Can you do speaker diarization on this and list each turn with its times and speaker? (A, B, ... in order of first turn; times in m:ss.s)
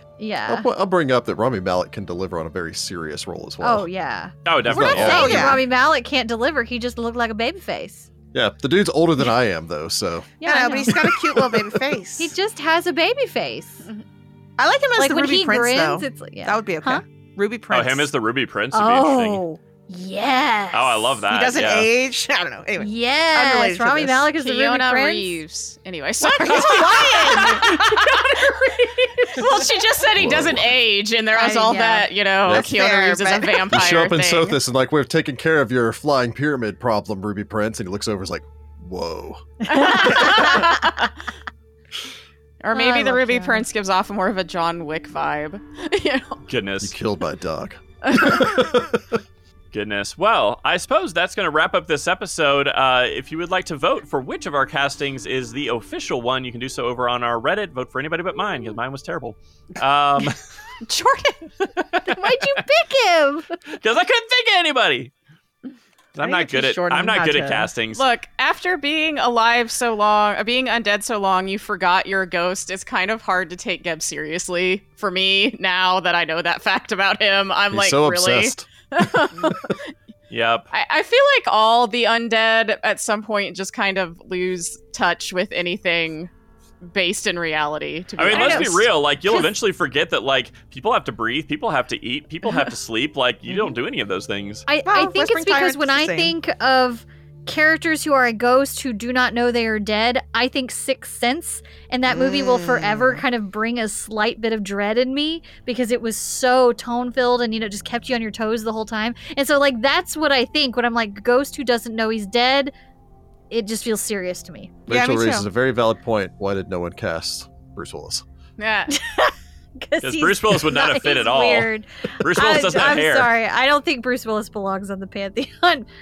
0:00.2-0:00.7 A
0:00.5-0:03.9 B
0:03.6-0:08.1 A
0:04.5-0:05.6 C
0:04.7-0:05.6 B
0:04.7-0:05.6 D
0:08.3-0:10.3 B
0:10.4-0:11.6 A
0:10.4-0:12.3 D
0:12.2-0:13.9 A
0:14.6-0:18.1 D
0:15.0-0:17.0 A
0:17.7-0:19.4 C
0:18.7-0:21.2 A
0:20.7-0:21.9 C
0:21.3-0:24.3 D
0:22.8-0:25.4 A
0:24.4-0:34.6 E
0:26.3-0:28.2 D
0:30.1-0:30.7 B
0:31.3-0:32.1 A
0:32.5-0:33.8 D
0:33.7-0:39.4 B
0:39.7-0:41.2 E
0:39.7-0:40.7 A
0:42.6-0:46.4 E
0:42.7-0:43.6 A
0:46.5-0:46.9 C
0:46.8-0:49.2 B
0:48.1-0:48.4 E
0:49.7-1:00.4 C
1:00.8-1:01.5 E
1:01.8-1:02.6 C
1:02.1-1:03.6 A
1:03.7-1:05.1 C
1:06.1-1:08.1 C
1:06.2-1:07.7 D
1:07.9-1:19.9 E
1:17.7-1:19.7 B
1:20.3-1:20.7 C
1:20.7-1:28.9 E
1:28.2-1:34.7 C
1:28.3-1:28.7 A
1:29.2-1:29.5 A
1:34.7-1:52.7 A
1:34.9-1:36.3 D
1:42.1-1:43.2 D
1:53.5-1:54.8 A
1:54.9-1:58.2 B
1:54.9-1:55.4 D
1:58.6-1:59.0 E
1:58.9-2:05.9 A
2:00.0-2:01.7 C
2:02.2-2:03.3 C